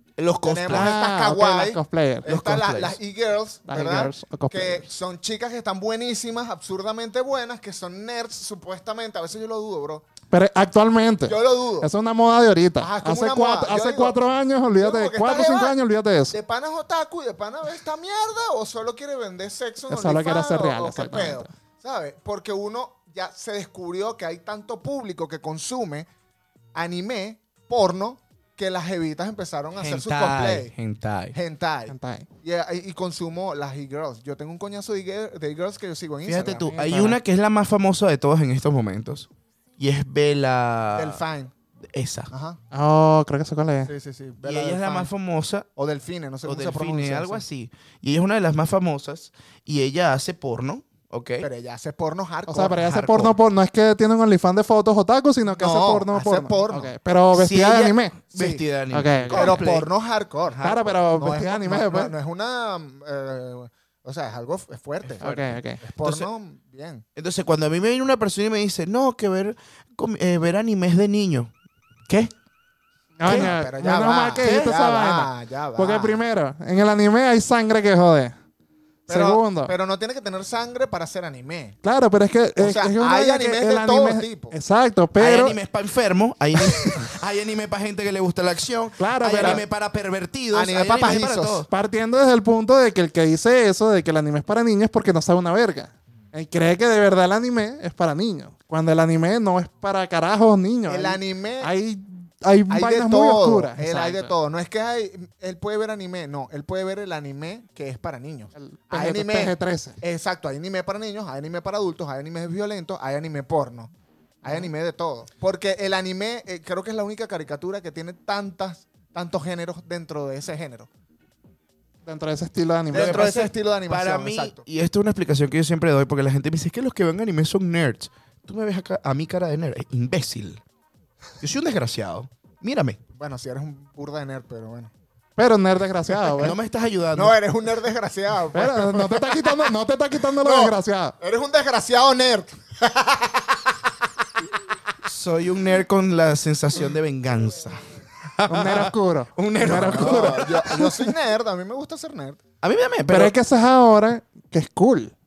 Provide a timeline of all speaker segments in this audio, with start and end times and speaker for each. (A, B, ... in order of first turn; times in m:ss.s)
0:00.2-0:00.9 A
0:00.4-0:10.0 B
0:00.7-0:02.3 C
0:02.2-0:03.0 A
0:03.7-0:04.8 C
0:10.3-0:16.4 C
0:11.3-0:11.9 B
0:12.8-0:14.2 B
0:14.8-0:15.8 B
0:16.3-0:26.1 B
0:19.9-0:21.5 C
0:26.7-0:30.7 B
0:29.8-0:31.4 A
0:31.3-0:36.9 B
0:31.9-0:32.2 C
0:36.2-0:41.2 A
0:36.7-0:37.2 C
0:40.9-0:41.5 B
0:41.8-0:42.3 A
0:42.3-0:42.6 B
0:42.7-0:43.9 C
0:43.9-0:45.1 B
0:44.4-0:45.7 A
0:45.8-0:47.4 B
0:46.4-0:51.5 A
0:51.4-0:52.8 B
0:52.5-0:58.2 C
0:52.7-0:53.3 A
0:55.5-0:56.9 B
0:57.3-0:59.9 A
0:58.3-0:58.6 B
0:58.9-0:59.6 C
0:59.3-1:07.0 B
1:00.5-1:01.0 A
1:00.6-1:02.1 C
1:05.0-1:06.3 A
1:05.2-1:05.8 C
1:07.2-1:11.5 A
1:12.1-1:12.3 A
1:13.2-1:18.3 C
1:13.2-1:13.6 A
1:13.2-1:16.2 B
1:14.4-1:14.7 A
1:19.1-1:19.7 C
1:19.1-1:21.8 B
1:21.8-1:25.6 C
1:22.6-1:24.5 B
1:25.2-1:31.7 A
1:29.0-1:29.6 C
1:30.5-1:31.6 B
1:31.7-1:44.3 C
1:40.9-1:41.7 B
1:42.7-1:53.9 B
1:48.6-1:50.0 C
1:54.4-2:00.9 B
2:02.0-2:03.2 C
2:02.9-2:04.6 B
2:02.9-2:10.6 A
2:11.4-2:13.0 A
2:13.2-2:14.9 B
2:15.4-2:16.6 C
2:16.4-2:17.4 A
2:17.1-2:19.7 B
2:18.5-2:21.1 C
2:20.3-2:23.8 B
2:25.0-2:27.8 A
2:28.4-2:30.9 A
2:28.5-2:30.7 C
2:29.6-2:32.4 B
2:32.6-2:33.3 A
2:33.1-2:35.1 C